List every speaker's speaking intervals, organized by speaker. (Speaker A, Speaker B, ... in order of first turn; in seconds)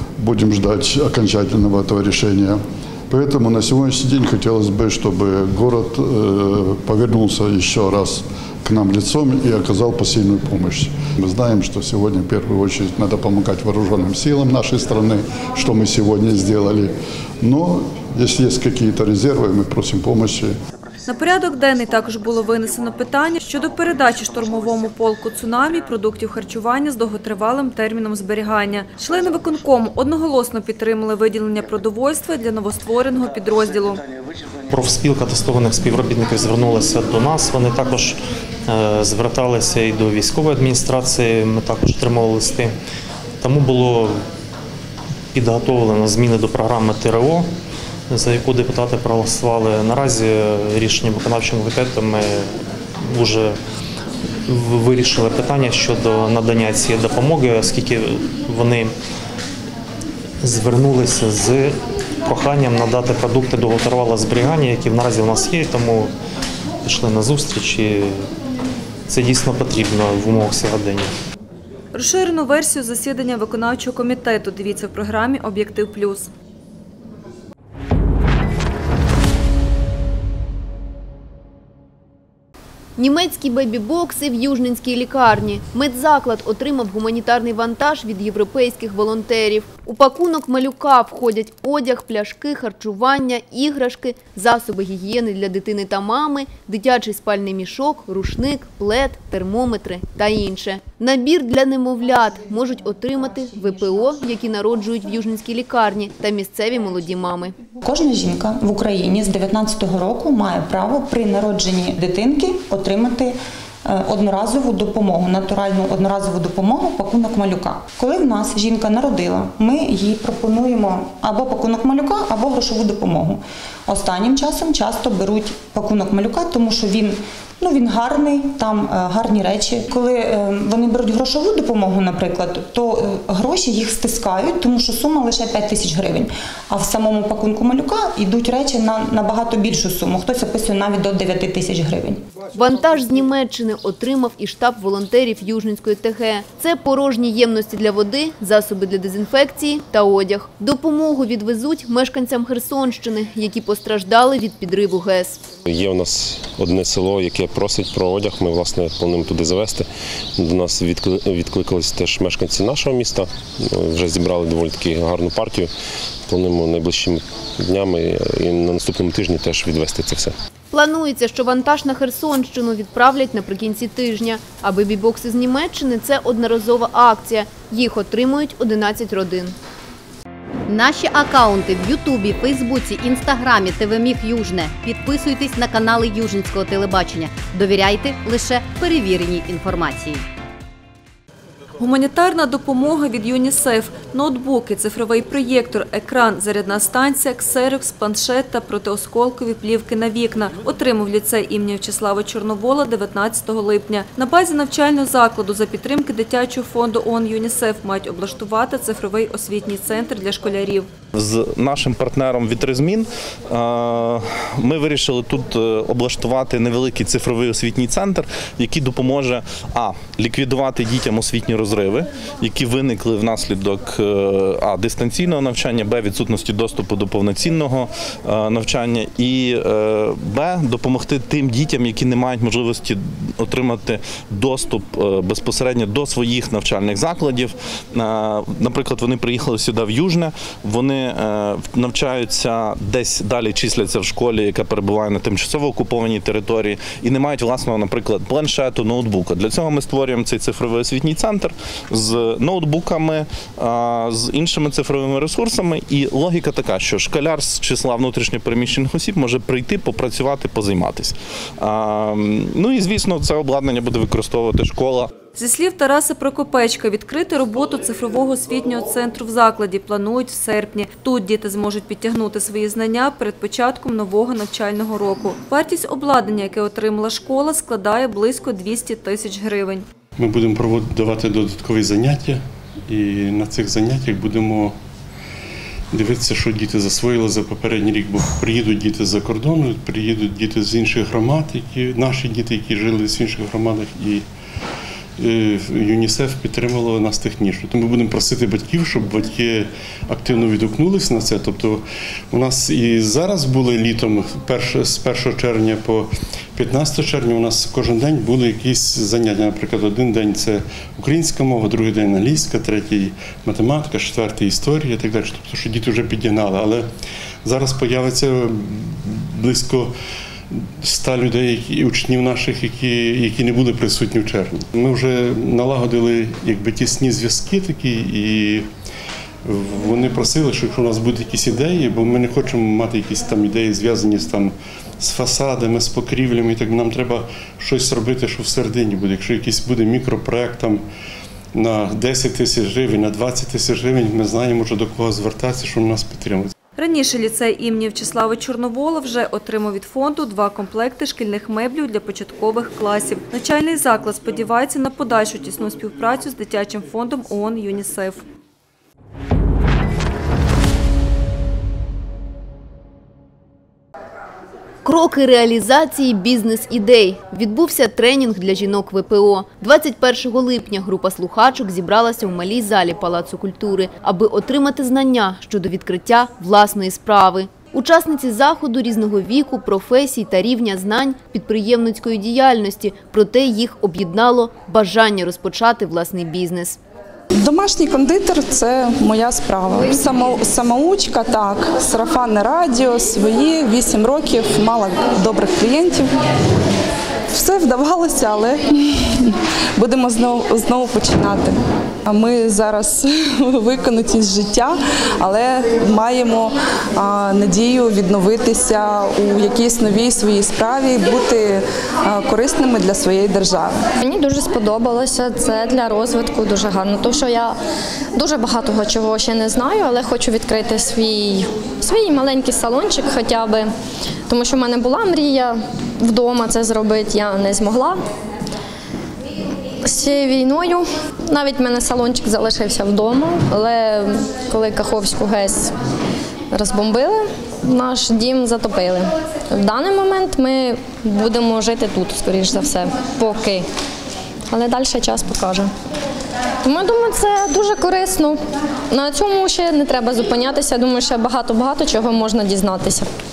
Speaker A: 0.2-20.5
Speaker B: 21.1-34.0, 71.9-76.3, 191.8-210.9, 265.4-279.8, 346.8-358.2
Speaker C: 34.7-38.1, 38.7-42.7, 43.4-44.1, 45.3-47.4, 48.1-52.3, 53.1-53.5, 54.5-58.9, 60.4-61.7, 62.3-66.1, 66.8-68.1, 69.1-71.1
Speaker D: 83.0-107.5, 142.5-155.4, 170.7-179.5, 364.8-386.8
Speaker E: 107.8-142.2
Speaker F: 155.6-165.7, 166.3-170.3
Speaker G: 180.7-190.2
Speaker H: 211.1-265.1
Speaker I: 280.2-282.4, 282.9-284.7, 285.9-294.2, 295.2-301.8, 302.3-306.0, 306.6-316.8, 317.4-318.4, 319.4-319.9, 320.8-328.6, 329.5-340.8, 341.6-346.5
Speaker J: 387.4-396.1, 397.3-398.6, 399.8-413.7
Speaker K: 414.0-417.5, 418.1-423.7, 424.3-428.0, 429.8-435.7, 436.5-443.6, 444.5-445.7, 446.6-448.4, 448.9-453.1